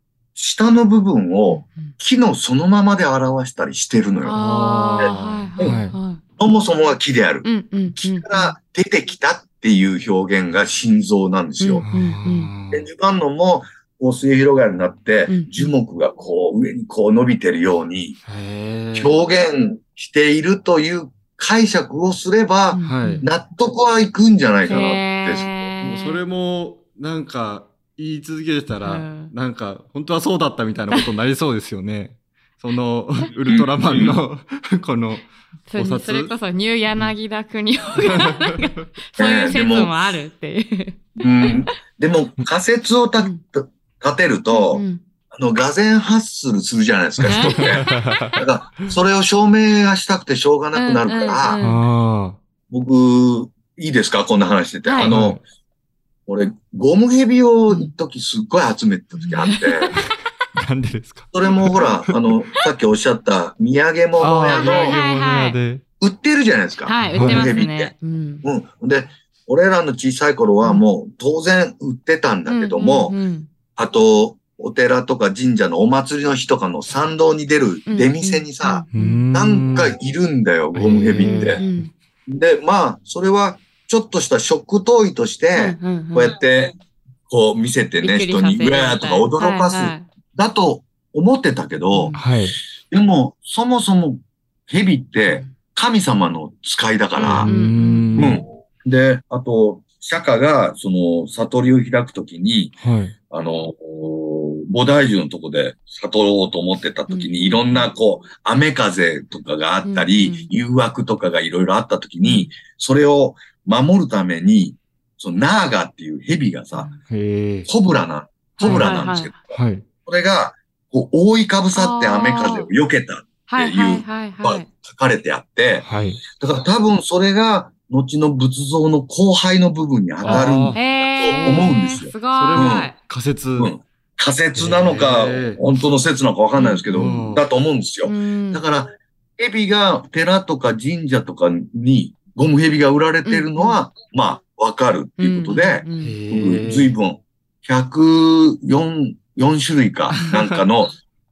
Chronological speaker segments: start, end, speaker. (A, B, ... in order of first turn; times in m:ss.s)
0:00.3-0:04.4 A
0:01.5-0:01.9 B
0:04.2-0:06.2 B
0:04.3-0:06.0 C
0:05.0-0:05.8 A
0:06.4-0:11.8 A
0:07.4-0:08.5 B
0:11.6-0:12.5 B
0:11.8-0:12.9 C
0:12.7-0:18.2 A
0:15.3-0:15.7 B
0:18.2-0:19.2 C
0:18.9-0:25.6 A
0:22.7-0:23.3 B
0:22.8-0:23.2 C
0:24.7-0:26.2 B
0:25.8-0:36.3 C
0:28.8-0:29.3 B
0:33.5-0:34.2 A
0:35.7-0:41.7 B
0:38.0-0:38.5 C
0:39.2-0:39.9 A
0:41.2-0:51.6 A
0:44.5-0:45.0 B
0:47.2-0:48.9 C
0:47.2-0:48.3 B
0:50.7-0:51.8 B
0:51.6-0:52.4 C
0:52.7-0:55.4 A
0:54.8-0:55.2 B
0:55.0-0:55.4 C
0:56.3-0:59.9 A
0:57.7-0:57.9 B
0:59.2-1:00.0 B
1:00.0-1:02.5 C
1:01.3-1:05.0 A
1:04.2-1:05.8 C
1:04.5-1:05.6 B
1:06.0-1:07.9 A
1:06.8-1:08.4 B
1:07.1-1:07.5 C
1:08.4-1:13.2 A
1:12.5-1:13.5 B
1:13.8-1:21.6 A
1:17.9-1:19.2 B
1:18.9-1:19.9 C
1:20.7-1:21.8 C
1:21.2-1:21.9 B
1:22.3-1:26.8 A
1:25.5-1:26.3 B
1:27.3-1:32.2 A
1:28.0-1:30.0 B
1:31.9-1:32.3 B
1:32.1-1:32.6 C
1:32.9-1:37.5 A
1:35.2-1:35.5 B
1:37.1-1:38.4 B
1:37.2-1:38.4 C
1:38.2-1:42.8 A
1:42.8-1:43.1 C
1:43.3-1:56.9 A
1:47.1-1:47.9 B
1:49.8-1:50.5 B
1:52.2-1:52.5 B
1:56.7-1:57.0 B
1:57.1-1:57.7 C
1:57.7-1:59.5 A
1:58.6-1:59.3 B
1:58.6-1:59.0 C
1:59.5-1:59.8 C
2:00.0-2:12.9 A
2:01.7-2:02.7 B
2:03.5-2:04.7 B
2:05.8-2:06.2 C
2:10.2-2:13.7 C
2:10.2-2:13.0 B
2:13.6-2:31.0 A
2:14.5-2:15.6 C
2:16.6-2:17.3 B
2:16.9-2:17.4 C
2:18.0-2:18.6 B
2:23.2-2:23.8 B
2:25.2-2:26.2 B
2:26.0-2:26.9 C
2:30.3-2:30.6 C